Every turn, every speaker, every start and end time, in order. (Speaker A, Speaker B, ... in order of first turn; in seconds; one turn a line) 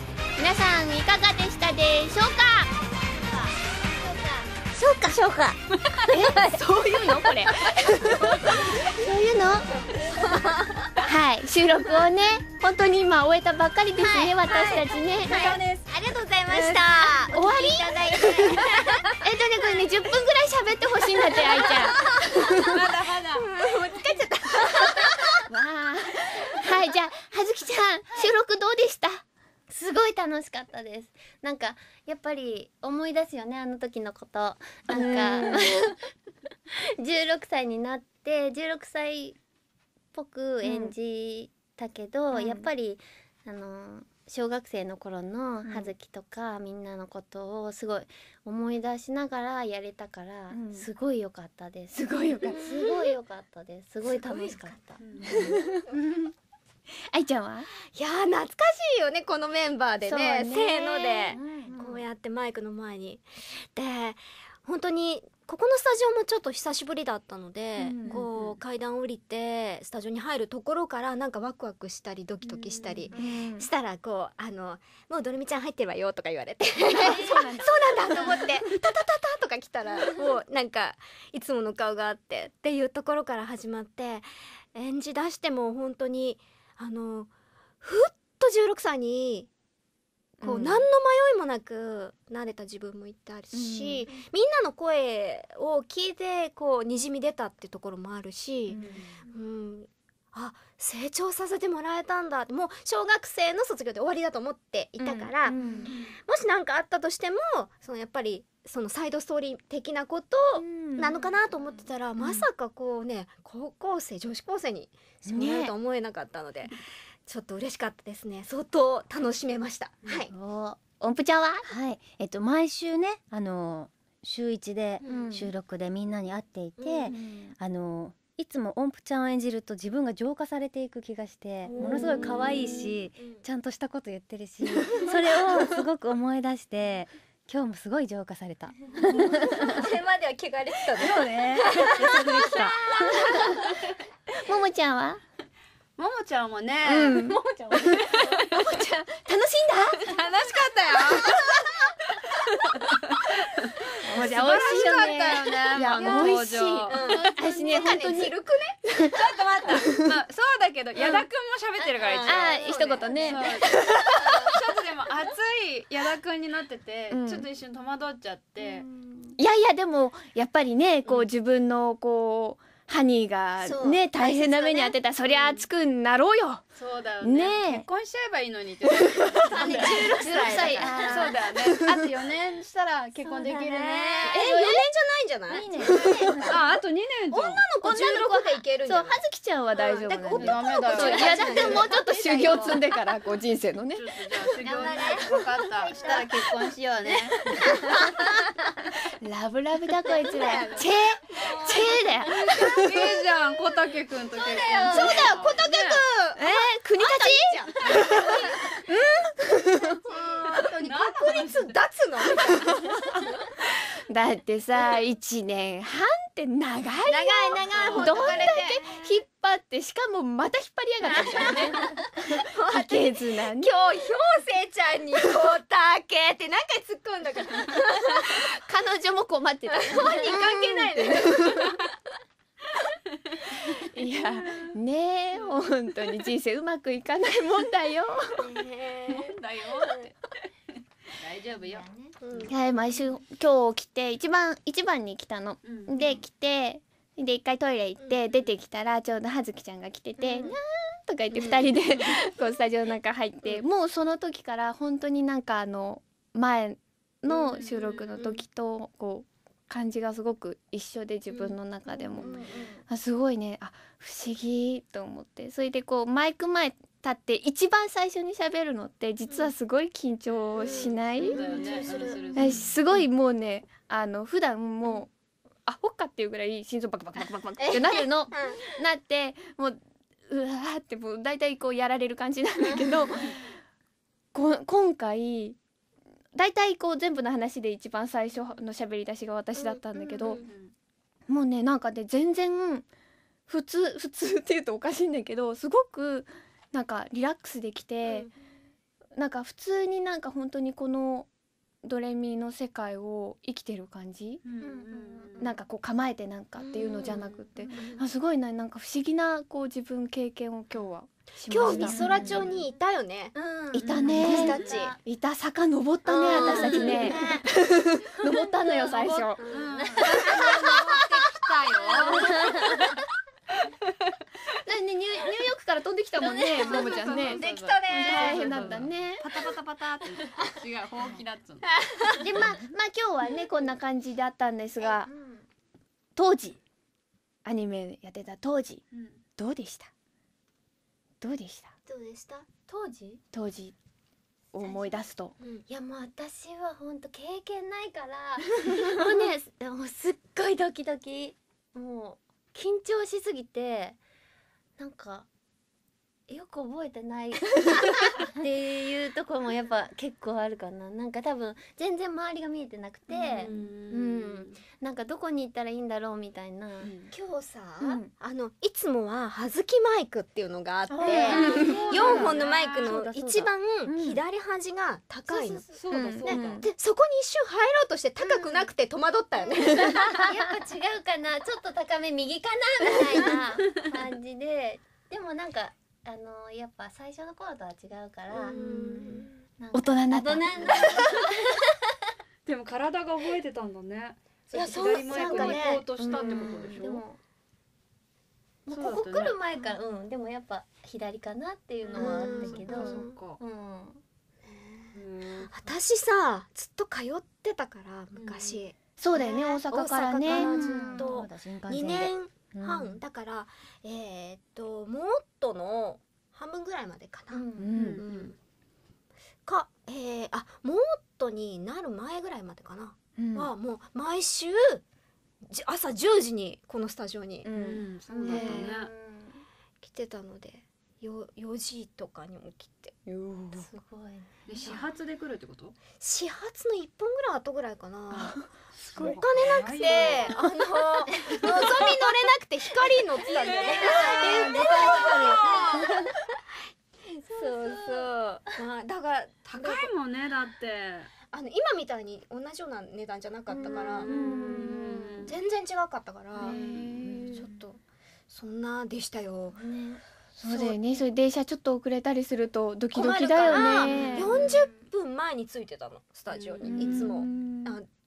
Speaker A: 0.4-2.7
Speaker B: 3.1-4.7
Speaker B: 5.2-5.5
Speaker A: 6.1-8.2
Speaker C: 6.5-8.5
Speaker A: 8.9-9.7
Speaker C: 10.1-10.5
Speaker A: 11.0-15.4
Speaker B: 14.0-14.3
Speaker C: 14.1-17.3
Speaker D: 15.2-15.8
Speaker B: 16.8-18.7
Speaker A: 17.3-18.0
Speaker C: 18.2-19.1
Speaker A: 19.2-22.8
Speaker C: 21.7-22.2
Speaker D: 22.7-23.4
Speaker C: 22.9-25.3
Speaker A: 25.5-29.2
Speaker B: 29.7-35.8
Speaker A: 34.9-35.8
Speaker B: 37.0-39.4
Speaker B: 40.1-55.0
Speaker A: 40.6-41.0
Speaker A: 42.3-42.7
Speaker A: 45.6-45.9
Speaker A: 50.5-50.9
Speaker A: 51.9-52.6
Speaker C: 52.4-53.1
Speaker C: 54.0-55.9
Speaker D: 55.0-55.4
Speaker A: 55.5-56.3
Speaker A: 57.1-57.7
Speaker C: 57.9-87.3
Speaker A: 60.0-61.9
Speaker B: 61.3-61.9
Speaker A: 67.8-68.4
Speaker A: 73.1-73.7
Speaker A: 77.0-78.4
Speaker C: 87.8-89.5
Speaker A: 90.4-90.9
Speaker C: 90.4-120.3
Speaker A: 93.5-94.1
Speaker A: 105.0-105.9
Speaker A: 110.6-111.1
Speaker A: 112.2-112.5
Speaker A: 115.3-115.7
Speaker B: 120.3-120.8
Speaker A: 120.8-121.7
Speaker E: 121.7-139.6
Speaker A: 125.1-125.5
Speaker B: 125.1-125.5
Speaker C: 126.8-127.2
Speaker A: 127.1-127.5
Speaker C: 131.6-133.4
Speaker C: 134.7-135.4
Speaker C: 139.1-143.5
Speaker E: 140.9-143.2
Speaker A: 144.4-145.2
Speaker D: 146.0-148.7
Speaker A: 146.8-147.9
Speaker A: 148.5-150.0
Speaker C: 150.0-151.7
Speaker D: 150.1-151.3
Speaker D: 152.8-153.2
Speaker A: 154.0-159.1
Speaker D: 154.1-157.3
Speaker C: 156.9-158.8
Speaker D: 159.1-162.6
Speaker A: 161.0-161.3
Speaker C: 162.0-164.6
Speaker A: 162.2-163.5
Speaker D: 163.2-163.8
Speaker D: 164.5-168.9
Speaker A: 167.1-167.5
Speaker B: 168.6-169.2
Speaker A: 169.4-176.7
Speaker C: 173.6-175.0
Speaker D: 175.2-175.6
Speaker D: 176.7-184.3
Speaker A: 177.2-177.9
Speaker C: 179.6-180.3
Speaker B: 179.6-181.0
Speaker A: 179.8-181.9
Speaker B: 183.3-183.7
Speaker C: 183.8-186.5
Speaker A: 184.3-184.9
Speaker E: 185.5-186.6
Speaker B: 185.6-185.9
Speaker A: 185.7-186.2
Speaker D: 186.0-187.6
Speaker C: 187.3-192.9
Speaker A: 187.8-194.1
Speaker D: 190.3-191.8
Speaker D: 193.9-197.5
Speaker B: 194.6-195.3
Speaker C: 194.7-196.3
Speaker B: 195.8-196.1
Speaker A: 199.2-202.9
Speaker C: 200.0-202.6
Speaker D: 202.3-206.0
Speaker B: 204.4-205.2
Speaker C: 204.5-208.8
Speaker A: 206.4-210.1
Speaker C: 210.1-213.4
Speaker D: 210.8-211.8
Speaker A: 214.1-224.1
Speaker C: 217.1-219.2
Speaker D: 217.7-218.8
Speaker C: 221.0-228.6
Speaker A: 228.2-231.7
Speaker C: 229.7-231.9
Speaker A: 233.7-238.6
Speaker D: 234.1-234.7
Speaker C: 238.4-240.1
Speaker D: 239.1-240.3
Speaker D: 241.1-241.9
Speaker B: 241.6-242.2
Speaker C: 242.2-242.6
Speaker A: 242.5-262.4
Speaker D: 245.6-246.0
Speaker C: 248.0-248.3
Speaker C: 250.2-250.6
Speaker C: 251.3-251.7
Speaker C: 257.3-257.5
Speaker D: 257.5-258.1
Speaker C: 258.1-258.4
Speaker C: 261.3-261.6
Speaker B: 261.9-262.8
Speaker C: 262.2-262.8
Speaker A: 262.9-271.8
Speaker C: 269.3-269.5
Speaker C: 270.6-272.4
Speaker D: 271.0-273.0
Speaker A: 272.3-275.1
Speaker A: 275.7-283.6
Speaker C: 277.2-278.8
Speaker B: 282.6-283.1
Speaker A: 284.3-285.6
Speaker A: 286.3-290.4
Speaker C: 289.6-290.5
Speaker D: 290.3-290.7
Speaker A: 291.3-292.9
Speaker A: 293.5-298.3
Speaker C: 298.0-298.3
Speaker A: 299.1-301.3
Speaker A: 301.8-304.5
Speaker D: 304.4-305.6
Speaker B: 304.6-305.4
Speaker A: 305.4-312.4
Speaker C: 306.6-308.0
Speaker B: 307.6-307.9
Speaker C: 311.5-313.4
Speaker B: 311.7-312.6
Speaker B: 313.4-315.0
Speaker A: 313.7-319.4
Speaker D: 313.8-314.7
Speaker C: 316.1-317.4
Speaker B: 316.2-317.4
Speaker D: 316.5-317.1
Speaker D: 318.9-322.8
Speaker C: 319.4-321.8
Speaker B: 319.8-320.8
Speaker B: 322.0-322.8
Speaker A: 324.6-329.3
Speaker C: 326.3-328.8
Speaker D: 326.6-331.8
Speaker C: 331.8-332.2
Speaker A: 332.2-335.1
Speaker B: 332.3-332.6
Speaker B: 335.0-335.5
Speaker A: 336.2-336.6
Speaker A: 337.4-338.8
Speaker D: 338.9-339.2
Speaker A: 339.4-339.9
Speaker A: 341.2-341.8
Speaker C: 341.9-342.5
Speaker B: 342.7-343.2
Speaker A: 343.3-343.8
Speaker A: 344.5-345.4
Speaker B: 344.6-345.0
Speaker B: 345.7-354.0
Speaker B: 354.8-355.3
Speaker B: 356.3-366.9
Speaker D: 363.1-364.6
Speaker C: 364.1-364.5
Speaker D: 366.8-367.1
Speaker C: 367.1-380.2
Speaker B: 371.0-372.4
Speaker A: 371.0-372.1
Speaker D: 371.0-373.0
Speaker E: 372.9-373.5
Speaker B: 375.3-376.6
Speaker D: 375.7-376.4
Speaker A: 375.9-376.6
Speaker B: 378.2-378.7
Speaker B: 379.4-391.7
Speaker C: 388.3-389.3
Speaker D: 388.6-388.9
Speaker A: 389.7-390.9
Speaker C: 390.8-391.1
Speaker D: 392.5-397.0
Speaker C: 394.5-395.9
Speaker A: 395.2-396.7
Speaker B: 395.6-397.2
Speaker B: 398.7-404.0
Speaker D: 398.7-399.4
Speaker D: 401.8-403.4
Speaker C: 401.9-403.2
Speaker C: 404.4-418.4
Speaker D: 404.9-405.5
Speaker D: 408.2-408.6
Speaker A: 409.0-410.6
Speaker E: 410.3-413.0
Speaker B: 410.5-411.1
Speaker B: 417.3-417.7
Speaker E: 417.6-418.0
Speaker D: 417.7-418.3
Speaker C: 419.4-424.8
Speaker A: 423.2-423.5
Speaker C: 425.4-427.5
Speaker A: 427.4-428.8
Speaker D: 427.5-428.9
Speaker B: 427.6-429.4
Speaker C: 429.8-433.0
Speaker A: 433.1-433.7
Speaker B: 433.5-434.7
Speaker D: 434.5-435.8
Speaker C: 436.0-446.1
Speaker A: 438.1-438.5
Speaker D: 438.7-440.4
Speaker D: 443.3-445.5
Speaker B: 443.5-445.6
Speaker E: 444.3-444.6
Speaker C: 447.3-449.9
Speaker B: 447.4-447.9
Speaker D: 449.5-451.1
Speaker C: 451.3-459.6
Speaker B: 453.5-455.0
Speaker D: 454.1-455.3
Speaker A: 454.1-454.5
Speaker D: 456.4-457.3
Speaker A: 456.4-457.1
Speaker B: 456.6-457.4
Speaker B: 459.5-460.0
Speaker A: 460.4-464.5
Speaker C: 460.4-461.1
Speaker C: 462.9-467.9
Speaker B: 463.8-464.2
Speaker D: 464.0-464.6
Speaker D: 466.3-467.2
Speaker A: 466.6-467.8